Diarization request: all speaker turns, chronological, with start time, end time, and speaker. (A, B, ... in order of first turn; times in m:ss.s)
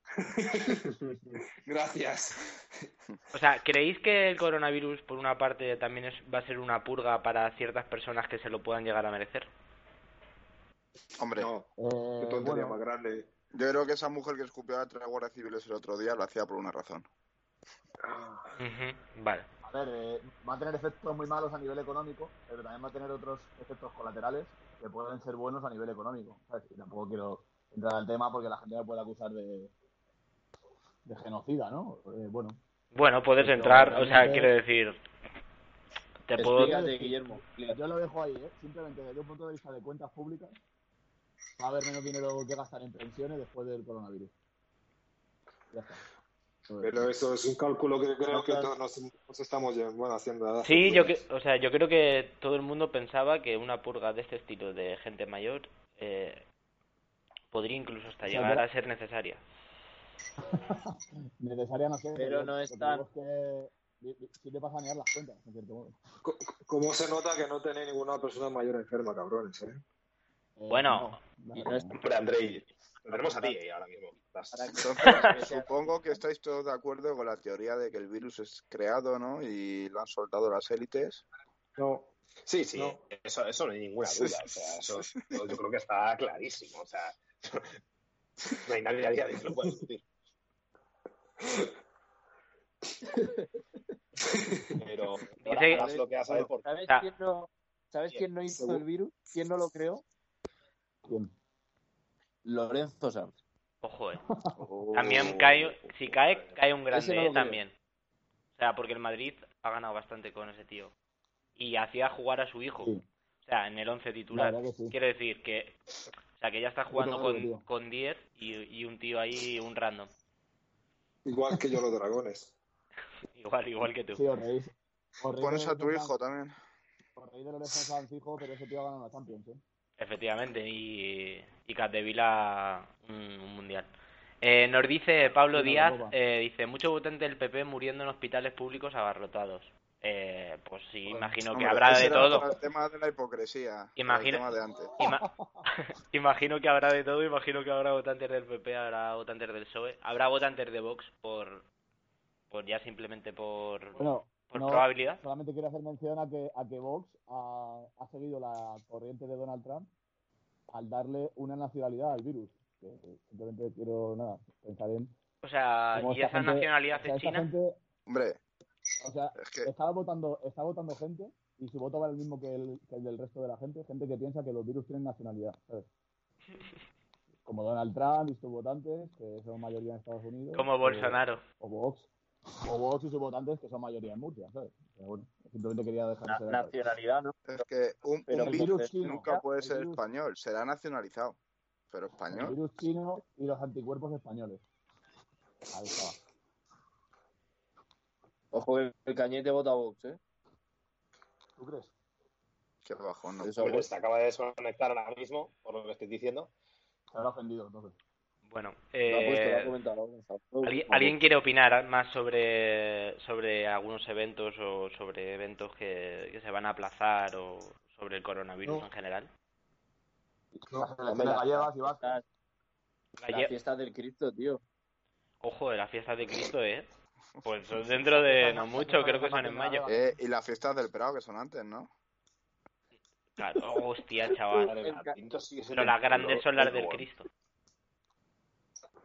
0:00.2-0:00.9 A
0:01.6-0:02.9 A
0:03.3-0:09.5 B
0:11.2-0:11.5 C
0:11.4-0:13.3 A
0:11.8-0:12.8 D
0:13.5-0:17.0 C
0:18.0-0:18.5 A
0:18.6-0:19.5 B
0:19.6-0:29.7 D
0:31.0-0:32.6 D
0:32.9-0:35.0 B
0:33.4-0:34.5 D
0:36.3-0:36.8 B
0:36.4-0:37.8 E
0:36.6-0:40.6 D
0:41.6-0:44.3 D
0:45.7-0:46.0 D
0:46.7-0:47.1 D
0:46.8-0:51.2 A
0:48.3-0:48.7 E
0:50.6-0:56.4 B
0:57.5-0:59.4 B
0:58.2-0:58.6 D
1:00.4-1:06.0 D
1:02.2-1:03.0 E
1:06.2-1:09.8 A
1:10.6-1:12.0 D
1:10.7-1:11.2 B
1:11.5-1:12.0 E
1:12.0-1:15.3 F
1:13.1-1:13.6 E
1:14.5-1:16.2 E
1:14.8-1:21.2 C
1:21.8-1:22.1 A
1:22.4-1:27.8 F
1:22.7-1:23.0 A
1:25.1-1:25.3 C
1:28.6-1:30.0 F
1:34.3-1:34.6 A
1:34.8-1:36.7 F
1:35.4-1:35.9 B
1:35.7-1:40.0 E
1:38.5-1:38.8 A
1:41.0-1:41.3 D
1:42.4-1:43.4 E
1:43.8-1:44.2 B
1:44.3-1:44.5 D
1:44.6-1:45.6 C
1:44.9-1:45.4 E
1:44.9-1:47.7 B
1:46.9-1:47.6 E
1:48.5-1:50.9 B
1:51.6-1:55.8 B
1:54.3-1:54.9 D
1:56.4-2:00.1 B
1:56.9-1:57.6 D
2:01.2-2:02.5 A
2:03.3-2:04.2 B
2:04.1-2:06.1 D
2:05.4-2:06.6 C
2:07.2-2:09.6 D
2:10.0-2:13.9 B
2:14.4-2:22.5 B
2:15.5-2:16.1 D
2:21.1-2:21.3 D
2:21.5-2:24.9 C
2:22.0-2:22.4 D
2:24.0-2:31.6 B
2:25.0-2:25.6 D
2:32.5-2:35.2 B
2:34.0-2:39.9 D
2:40.7-2:45.1 D
2:45.4-2:47.5 B
2:45.9-2:47.8 D
2:48.1-2:48.4 C
2:49.0-2:55.9 D
2:49.4-2:49.7 C
2:57.4-3:02.1 D
3:00.5-3:01.4 B
3:02.6-3:06.7 D
3:06.3-3:07.4 E
3:07.5-3:11.4 C
3:08.3-3:09.4 E
3:08.3-3:10.0 D
3:11.9-3:12.6 C
3:12.3-3:14.6 D
3:15.7-3:16.2 D
3:18.5-3:20.2 E
3:21.6-3:21.9 D
3:22.8-3:23.7 C
3:23.4-3:23.8 E
3:23.6-3:26.5 F
3:27.1-3:28.0 D
3:28.4-3:29.7 B
3:29.1-3:31.2 E
3:30.6-3:39.3 B
3:40.6-3:42.2 D
3:41.1-3:42.2 E
3:43.2-3:43.5 B
3:43.3-3:44.6 E
3:45.4-3:46.9 B
3:47.4-3:49.8 B
3:48.1-3:50.2 D
3:49.9-3:51.9 C
3:53.4-3:54.8 B
3:54.7-3:57.0 F
3:54.7-3:55.2 E
3:55.7-3:57.3 B